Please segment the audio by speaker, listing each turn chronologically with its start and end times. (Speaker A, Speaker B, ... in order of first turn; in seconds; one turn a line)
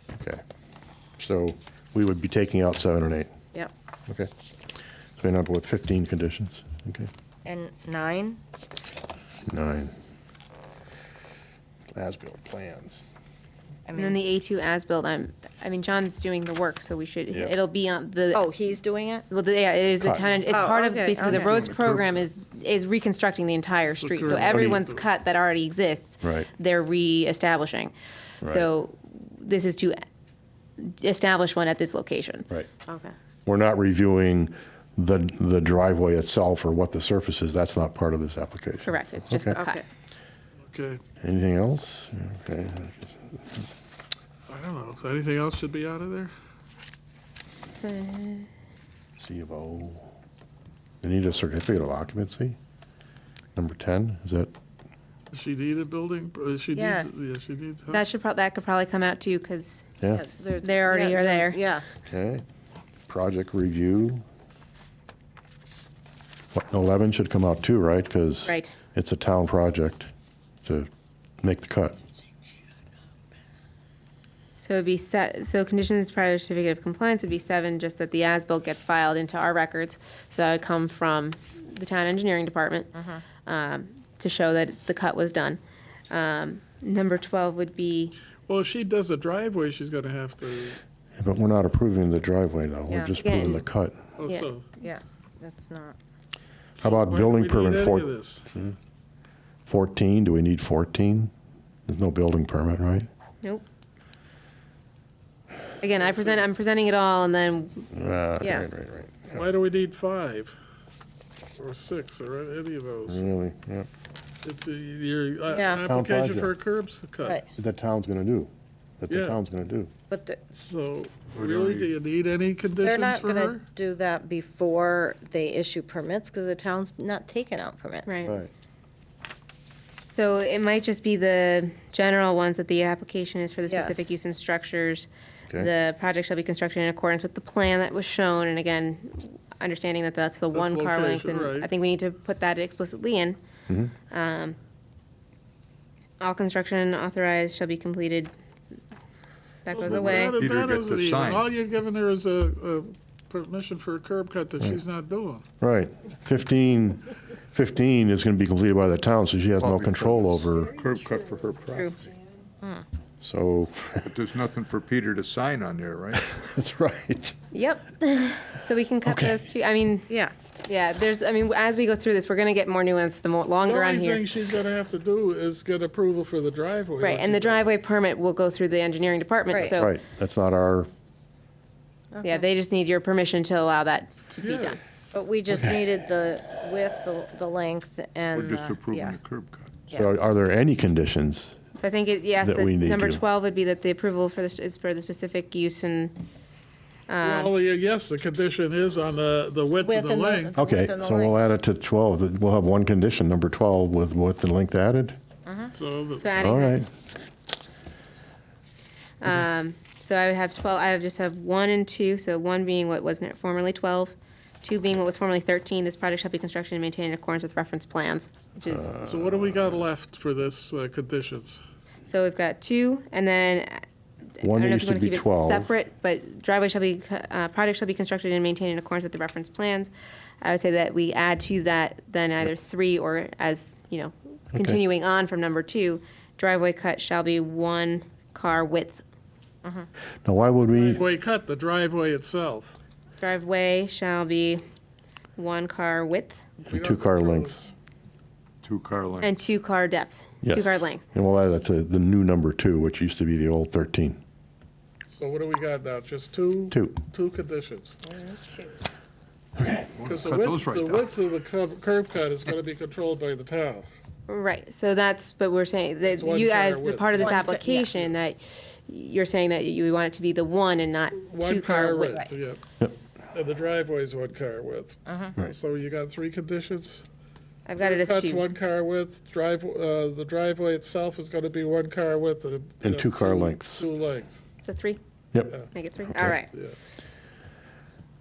Speaker A: 0.1-0.4
Speaker A: 1.2-3.3
Speaker A: 5.2-7.1
Speaker B: 7.5-8.4
Speaker A: 9.5-9.9
Speaker A: 11.9-13.0
Speaker B: 13.9-14.2
Speaker C: 14.0-18.5
Speaker B: 18.3-19.3
Speaker C: 19.3-30.0
Speaker A: 20.0-20.5
Speaker B: 20.5-21.8
Speaker A: 21.7-22.1
Speaker D: 24.0-25.0
Speaker A: 24.3-24.9
Speaker A: 26.2-26.5
Speaker A: 28.4-28.7
Speaker C: 30.8-32.5
Speaker B: 32.9-33.1
Speaker A: 33.5-39.6
Speaker C: 38.9-39.8
Speaker B: 39.5-39.8
Speaker D: 40.7-41.0
Speaker A: 41.2-43.6
Speaker D: 44.5-46.3
Speaker C: 47.7-48.5
Speaker A: 49.2-50.1
Speaker A: 51.0-52.6
Speaker A: 53.6-54.5
Speaker D: 55.3-58.0
Speaker B: 56.8-57.1
Speaker C: 57.9-59.9
Speaker B: 60.1-61.9
Speaker C: 60.6-61.6
Speaker A: 62.1-62.4
Speaker A: 63.1-64.2
Speaker A: 66.5-70.1
Speaker C: 68.5-68.7
Speaker A: 71.4-72.0
Speaker C: 74.6-88.2
Speaker B: 83.0-83.2
Speaker D: 88.5-90.8
Speaker A: 91.2-94.0
Speaker B: 92.9-93.2
Speaker C: 93.2-93.6
Speaker D: 94.2-94.7
Speaker B: 94.8-96.0
Speaker D: 96.8-98.4
Speaker A: 96.8-98.8
Speaker A: 99.7-101.3
Speaker A: 101.9-103.1
Speaker C: 105.8-107.9
Speaker D: 106.0-106.5
Speaker A: 107.9-109.4
Speaker B: 108.4-108.7
Speaker D: 109.3-110.5
Speaker D: 111.6-113.2
Speaker A: 113.1-113.9
Speaker D: 114.4-117.4
Speaker B: 115.5-115.8
Speaker A: 115.8-116.5
Speaker A: 117.6-119.9
Speaker D: 119.1-119.4
Speaker B: 120.1-120.5
Speaker D: 120.5-123.6
Speaker E: 121.3-121.9
Speaker B: 122.8-128.2
Speaker C: 128.1-128.4
Speaker C: 130.1-143.4
Speaker B: 133.7-134.1
Speaker D: 140.5-141.7
Speaker C: 144.1-144.6
Speaker C: 146.2-148.3
Speaker C: 149.7-150.4
Speaker D: 149.7-155.4
Speaker E: 149.8-151.5
Speaker A: 155.6-160.8
Speaker E: 159.6-161.9
Speaker A: 163.2-164.2
Speaker E: 164.0-166.2
Speaker A: 166.1-167.4
Speaker C: 167.5-170.1
Speaker A: 169.1-169.4
Speaker C: 170.7-174.2
Speaker D: 173.7-177.7
Speaker C: 177.0-179.9
Speaker B: 179.5-179.8
Speaker A: 179.6-180.9
Speaker B: 182.2-182.4
Speaker C: 182.2-184.8
Speaker D: 184.4-184.8
Speaker B: 185.1-189.2
Speaker E: 188.3-189.9
Speaker A: 189.9-191.6
Speaker C: 191.8-196.2
Speaker A: 192.4-193.2
Speaker C: 197.1-197.5
Speaker D: 197.2-200.6
Speaker B: 199.8-201.3
Speaker A: 200.6-205.2
Speaker B: 205.5-205.7
Speaker D: 205.7-206.4
Speaker C: 206.2-206.8
Speaker A: 206.4-206.9
Speaker C: 209.2-218.9
Speaker A: 218.7-219.9
Speaker D: 219.0-221.6
Speaker C: 222.1-223.8
Speaker A: 224.4-225.7
Speaker C: 224.4-239.0
Speaker A: 234.5-234.8
Speaker A: 240.2-241.0
Speaker D: 240.7-242.8
Speaker C: 243.2-244.6
Speaker C: 245.4-246.4
Speaker D: 246.6-247.6
Speaker A: 246.7-247.6
Speaker E: 248.6-249.3
Speaker C: 249.2-251.0
Speaker A: 250.4-254.2
Speaker D: 255.2-258.3
Speaker A: 256.7-257.0
Speaker A: 259.6-259.9
Speaker E: 260.0-261.1
Speaker D: 260.0-263.9
Speaker C: 264.3-272.3
Speaker D: 266.1-267.4
Speaker B: 267.2-267.9
Speaker D: 271.2-272.6
Speaker D: 273.3-277.0
Speaker B: 275.1-275.4
Speaker C: 277.7-278.4
Speaker D: 277.8-284.3
Speaker A: 282.8-283.8
Speaker C: 284.6-285.0
Speaker C: 285.7-286.5
Speaker A: 286.1-286.4